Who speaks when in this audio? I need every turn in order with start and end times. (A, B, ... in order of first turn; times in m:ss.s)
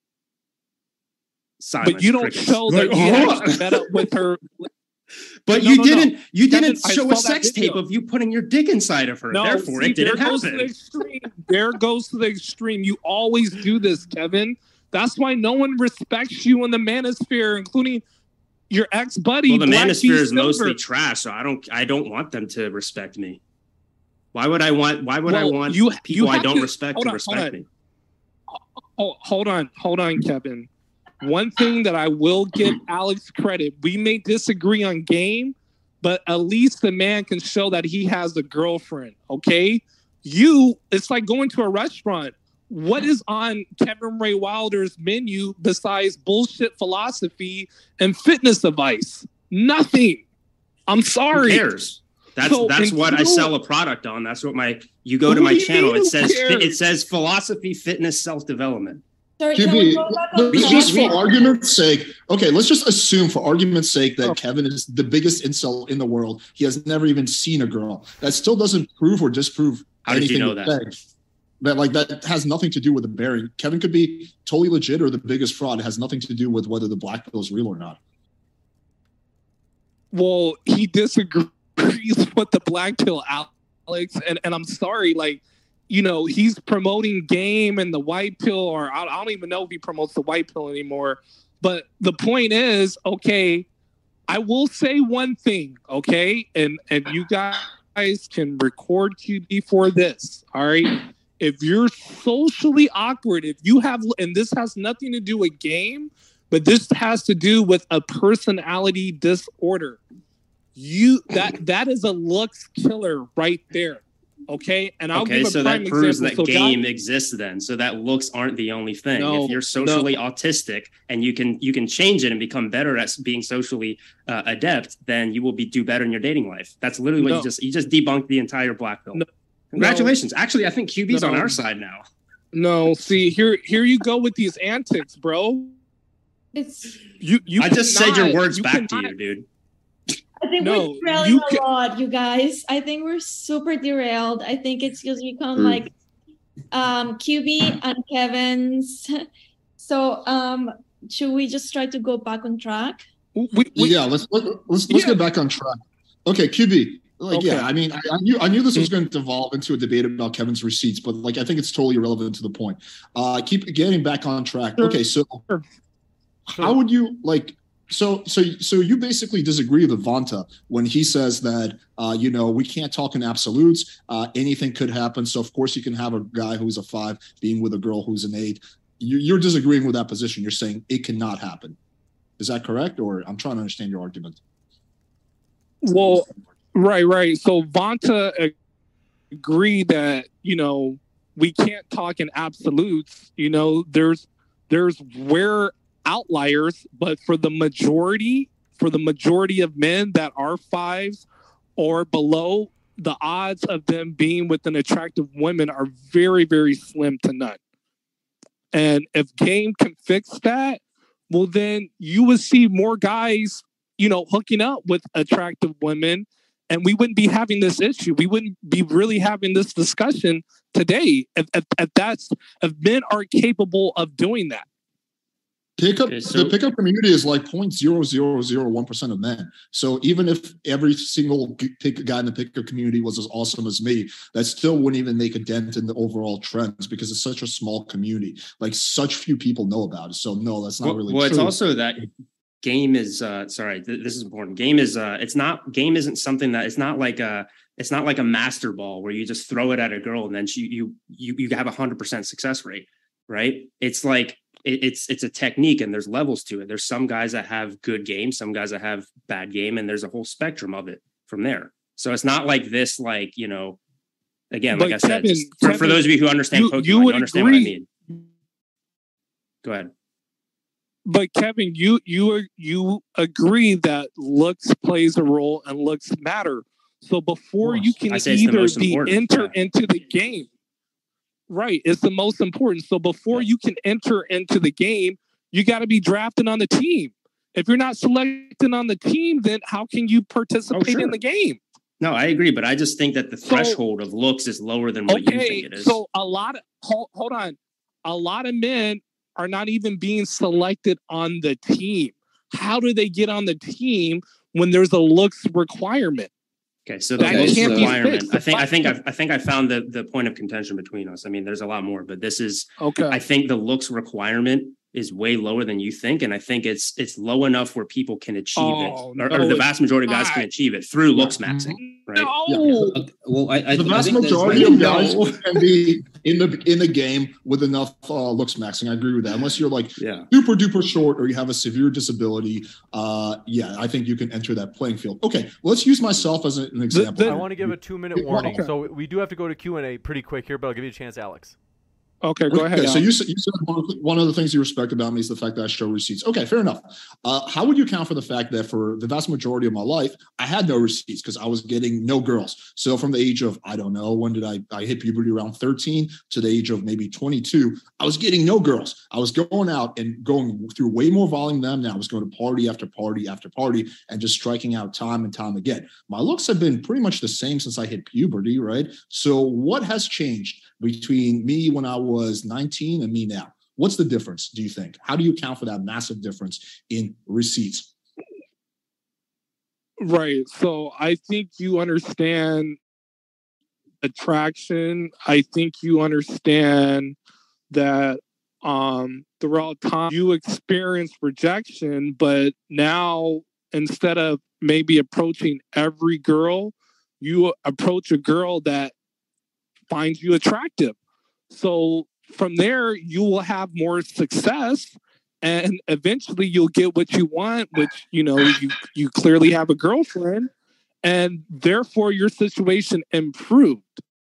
0:01.6-0:04.0 A
0:01.8-0:04.6 B
0:05.5-0:10.7 A
0:05.5-0:07.8 B
0:09.3-0:18.0 B
0:18.7-0:20.8 B
0:19.5-0:23.4 A
0:24.3-0:27.7 A
0:25.3-0:27.6 B
0:29.0-0:30.7 B
0:31.2-0:50.2 B
0:50.9-0:51.6 B
0:51.3-0:59.0 A
0:52.4-0:53.5 B
0:55.3-0:56.8 B
0:59.4-1:01.6 C
0:59.5-1:11.0 D
1:10.1-1:10.8 A
1:11.6-1:18.0 D
1:20.1-1:33.7 B
1:34.3-1:50.0 B
1:50.8-1:56.8 B
1:55.1-2:12.0 A
1:59.1-2:00.1 B
2:07.2-2:07.5 B
2:09.1-2:10.1 B
2:11.1-2:11.6 B
2:12.5-2:15.8 B
2:16.6-2:17.0 C
2:17.2-2:19.1 B
2:17.6-2:19.5 A
2:20.4-2:25.9 C
2:20.6-2:21.6 B
2:26.7-2:29.1 C
2:29.8-2:33.0 C
2:33.4-2:34.0 B
2:33.8-2:45.4 D
2:34.9-2:35.2 B
2:37.3-2:37.7 B
2:44.8-2:45.6 B
2:46.5-3:01.8 D
3:02.4-3:04.4 D
3:05.8-3:08.5 B
3:09.4-3:21.3 B
3:21.8-3:27.6 B
3:28.7-3:44.7 B
3:45.8-4:01.6 D
3:46.1-3:46.5 A
4:00.8-4:02.1 A
4:02.6-4:23.8 A
4:24.5-4:27.9 A
4:24.7-4:28.2 B
4:29.6-4:29.9 A
4:31.1-4:40.5 B
4:37.6-4:39.6 A
4:41.5-4:51.6 B
4:50.7-4:51.2 A
4:52.0-4:56.0 A
4:53.4-4:53.8 B
4:55.1-5:06.3 B
5:06.9-5:22.3 A
5:07.2-5:09.0 B
5:07.2-5:08.0 E
5:12.8-5:13.2 B
5:18.6-5:20.5 B
5:21.2-5:21.8 D
5:21.8-5:23.0 B
5:22.5-5:23.0 D
5:22.9-5:25.2 E
5:23.7-5:38.7 D
5:24.5-5:25.2 B
5:30.0-5:30.3 A
5:36.9-5:37.4 B
5:37.2-5:41.6 F
5:38.4-5:38.7 B
5:42.2-5:43.1 B
5:42.5-6:17.9 D
6:20.0-6:22.8 B
6:24.0-6:27.2 B
6:27.7-6:38.9 B
6:39.9-6:41.0 B
6:41.5-6:50.5 B
6:51.0-6:54.0 B